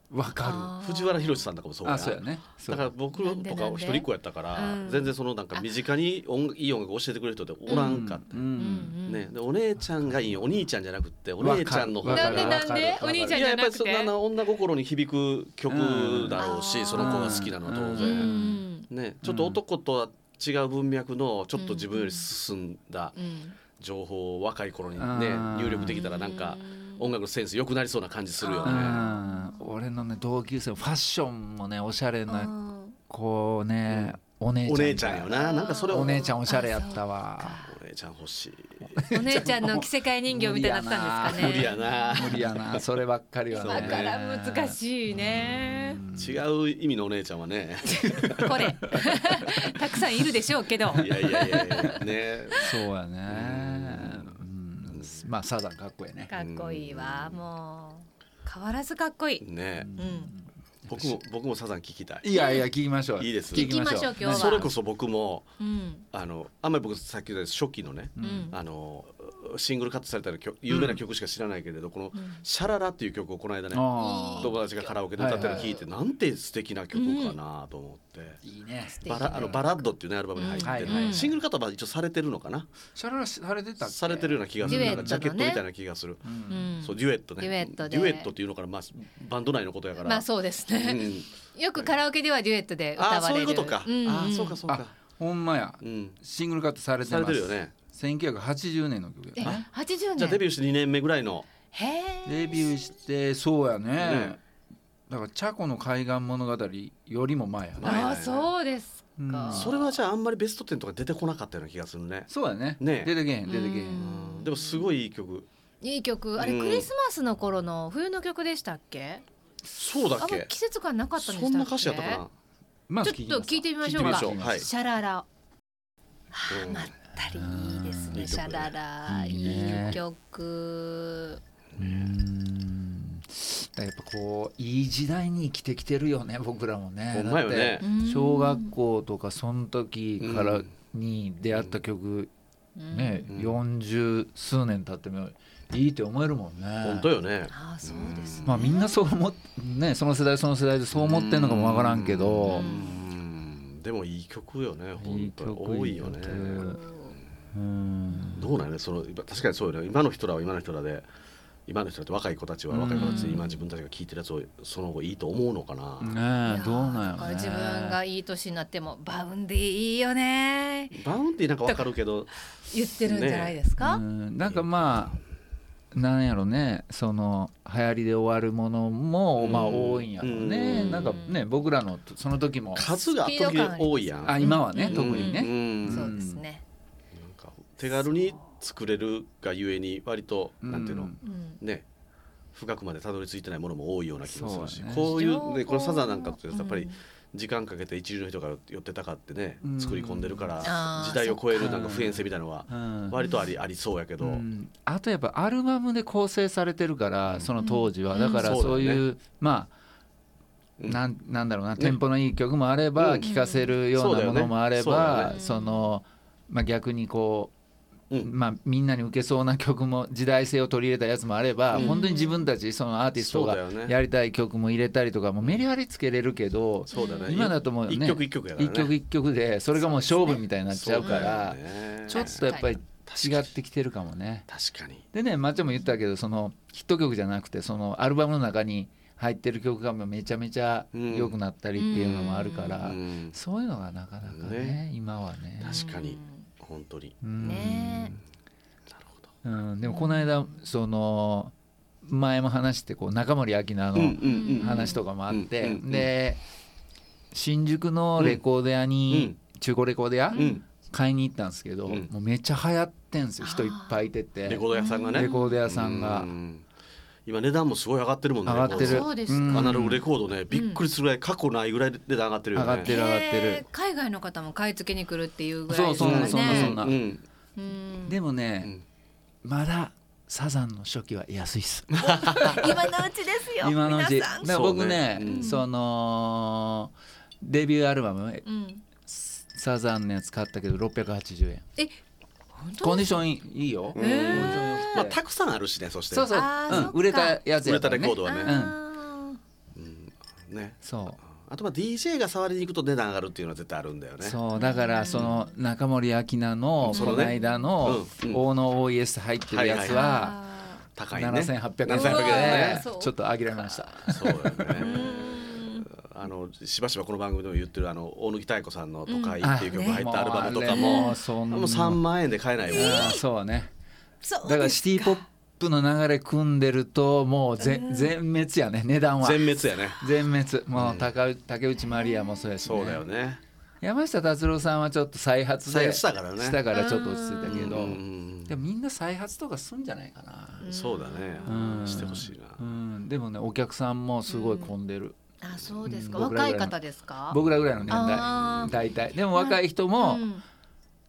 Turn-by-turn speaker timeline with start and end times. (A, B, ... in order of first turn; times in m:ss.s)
0:00.1-0:00.8 A
0:00.4-0:01.5 B
0:00.8-0:08.5 C
0:01.8-0:02.9 A
0:03.1-0:05.7 B
0:07.7-0:08.0 B
0:07.7-0:08.9 A
0:08.6-0:09.3 B
0:09.0-0:18.3 C
0:09.8-0:10.6 A
0:11.4-0:13.4 A
0:12.0-0:14.1 B
0:15.7-0:18.6 A
0:16.4-0:17.4 B
0:18.0-0:18.9 B
0:18.9-0:23.2 C
0:19.2-0:19.6 A
0:21.5-0:22.3 B
0:23.1-0:23.6 B
0:23.8-0:29.0 C
0:25.0-0:26.0 A
0:25.9-0:27.1 B
0:28.4-0:29.8 B
0:28.6-0:32.5 A
0:32.3-0:33.0 B
0:33.1-0:35.4 A
0:33.9-0:36.4 C
0:35.4-0:37.7 B
0:35.9-0:37.7 A
0:37.6-0:39.6 C
0:38.9-0:46.4 A
0:39.1-0:42.4 B
0:41.2-0:42.8 C
0:43.5-0:46.0 B
0:43.6-0:44.1 C
0:46.2-0:48.8 C
0:47.9-0:52.0 B
0:50.9-0:51.6 A
0:50.9-0:52.6 C
0:52.6-0:56.3 A
0:53.3-0:55.3 C
0:56.3-0:59.4 B
0:56.3-0:57.4 C
0:59.4-0:59.9 C
0:59.8-1:01.2 A
1:00.0-1:00.3 B
1:00.9-1:02.3 C
1:02.2-1:04.7 A
1:02.3-1:02.7 B
1:03.2-1:05.5 C
1:03.5-1:04.7 B
1:05.6-1:06.0 B
1:06.1-1:13.8 C
1:08.2-1:08.5 A
1:08.2-1:08.6 B
1:10.7-1:11.0 A
1:12.1-1:12.4 B
1:13.7-1:14.6 A
1:13.9-1:15.8 B
1:14.4-1:18.4 C
1:15.1-1:15.7 A
1:16.9-1:17.4 B
1:18.4-1:19.7 A
1:19.0-1:21.4 B
1:19.0-1:22.7 C
1:20.6-1:21.4 A
1:22.9-1:25.2 A
1:23.8-1:32.0 C
1:24.6-1:25.6 B
1:26.2-1:26.7 A
1:26.5-1:28.3 B
1:30.0-1:34.6 B
1:33.0-1:35.0 C
1:34.7-1:39.6 A
1:35.8-1:36.2 C
1:37.0-1:37.7 C
1:39.4-1:40.4 B
1:39.4-1:41.5 C
1:41.7-1:42.7 B
1:42.2-1:44.4 A
1:44.0-1:44.4 C
1:45.1-1:48.1 A
1:47.8-1:48.5 C
1:47.8-1:49.7 B
1:49.2-1:50.0 A
1:49.5-1:53.1 C
1:52.3-1:54.0 A
1:53.4-1:54.9 B
1:54.0-1:55.5 C
1:55.8-1:59.2 B
1:56.4-1:56.9 C
1:59.8-2:00.5 C
2:00.2-2:02.2 B
2:01.2-2:02.3 C
2:02.9-2:04.7 A
2:03.0-2:05.2 B
2:03.9-2:04.7 C
2:06.3-2:11.4 B
2:06.5-2:06.9 C
2:07.3-2:08.4 A
2:08.1-2:08.8 C
2:09.1-2:10.0 A
2:09.4-2:10.0 C
2:11.7-2:12.1 C
2:11.8-2:22.3 A
2:17.1-2:17.8 C
2:17.8-2:18.8 B
2:20.2-2:20.7 C
2:21.5-2:21.8 C
2:22.8-2:23.3 B
2:22.9-2:27.1 A
2:23.3-2:23.6 C
2:26.8-2:28.7 C
2:27.5-2:29.0 B
2:28.4-2:32.7 A
2:30.9-2:36.6 C
2:32.4-2:33.0 B
2:35.0-2:36.8 A
2:36.5-2:37.1 B
2:37.5-2:38.5 A
2:38.4-2:41.1 C
2:41.7-2:46.2 C
2:42.7-2:43.6 A
2:42.9-2:43.4 B
2:46.0-2:48.0 A
2:46.4-2:51.0 B
2:50.9-2:52.5 C
2:52.7-2:54.0 B
2:53.0-2:53.6 C
2:53.8-2:55.2 A
2:54.4-2:55.1 C
2:55.9-3:02.9 A
2:59.4-3:01.2 C
3:00.6-3:01.4 B
3:02.7-3:06.1 C
3:03.1-3:06.6 B
3:04.2-3:06.4 A
3:07.1-3:11.8 C
3:07.9-3:08.5 B
3:10.6-3:11.2 A
3:11.2-3:11.6 B
3:12.5-3:24.4 C
3:14.2-3:15.2 A
3:15.0-3:17.0 B
3:19.6-3:20.7 A
3:20.6-3:21.7 B
3:21.5-3:23.3 A
3:24.2-3:29.7 A
3:27.6-3:28.6 B
3:28.4-3:29.0 C
3:30.9-3:37.5 A
3:33.0-3:33.3 C
3:33.2-3:33.8 B
3:33.9-3:35.3 C
3:35.2-3:35.9 B
3:38.2-3:54.5 A
3:41.7-3:42.0 C
3:41.8-3:42.5 B
3:43.1-3:44.0 C
3:46.9-3:47.5 B
3:46.9-3:49.0 C
3:49.8-3:50.4 B
3:50.7-3:53.5 C
3:51.0-3:51.4 B
3:52.1-3:52.8 B
3:54.5-3:55.0 C
3:55.1-4:05.8 A
4:00.9-4:01.4 C
4:01.8-4:02.9 B
4:02.8-4:03.4 C
4:04.2-4:04.8 C
4:05.6-4:08.2 C
4:05.6-4:06.5 B
4:07.2-4:08.2 A
4:07.4-4:08.2 B
4:08.9-4:09.3 C
4:09.4-4:16.4 A
4:09.8-4:10.6 B
4:14.0-4:16.1 C
4:14.2-4:15.0 B
4:17.3-4:26.3 A
4:18.2-4:18.4 C
4:19.1-4:19.4 C
4:20.3-4:20.6 B
4:20.4-4:20.6 C
4:23.4-4:24.1 B
4:24.4-4:26.7 C
4:24.7-4:25.6 B
4:27.2-4:32.9 C
4:28.4-4:30.0 A
4:28.6-4:29.8 B
4:30.5-4:30.8 B
4:32.5-4:33.6 A
4:32.8-4:36.8 B
4:35.7-4:37.0 A
4:36.0-4:37.2 C
4:37.6-4:38.2 B
4:38.1-4:38.7 A
4:39.4-4:42.8 A
4:42.0-4:42.6 C
4:42.0-4:44.6 B
4:43.6-4:48.4 A
4:44.4-4:45.5 C
4:45.2-4:45.6 B
4:48.4-4:48.8 B
4:49.0-4:51.6 A
4:52.5-4:53.2 B
4:52.8-4:55.2 A
4:53.9-4:55.1 B
4:53.9-4:56.9 C
4:56.1-4:58.8 A
4:56.3-4:57.4 B
4:57.6-4:58.6 C
4:58.2-4:59.4 B
4:59.7-5:04.4 C
5:00.8-5:01.2 A
5:04.2-5:10.4 A
5:04.5-5:05.4 B
5:05.1-5:05.4 C
5:06.8-5:08.4 C
5:06.9-5:07.7 B
5:09.5-5:10.0 C
5:09.8-5:10.8 B
5:11.0-5:12.9 C
5:11.1-5:14.9 A
5:11.9-5:14.0 B
5:14.1-5:23.2 C
5:14.8-5:15.9 B
5:19.1-5:20.0 B
5:19.4-5:22.0 A
5:20.6-5:21.2 B
5:22.7-5:23.7 A
5:22.7-5:23.2 B
5:24.2-5:25.2 B
5:24.4-5:33.0 A
5:27.6-5:28.1 B
5:29.2-5:30.1 C
5:30.7-5:31.1 C
5:31.8-5:32.4 B
5:32.6-5:33.4 C
5:33.8-5:40.7 A
5:35.6-5:36.6 C
5:36.7-5:37.8 B
5:37.5-5:38.6 C
5:40.6-5:42.1 B
5:40.6-5:42.8 C
5:41.5-5:45.2 A
5:44.3-5:44.7 B
5:45.4-5:48.8 B
5:45.7-5:46.3 C
5:45.8-5:50.2 A
5:47.9-5:48.8 C
5:49.3-5:50.4 B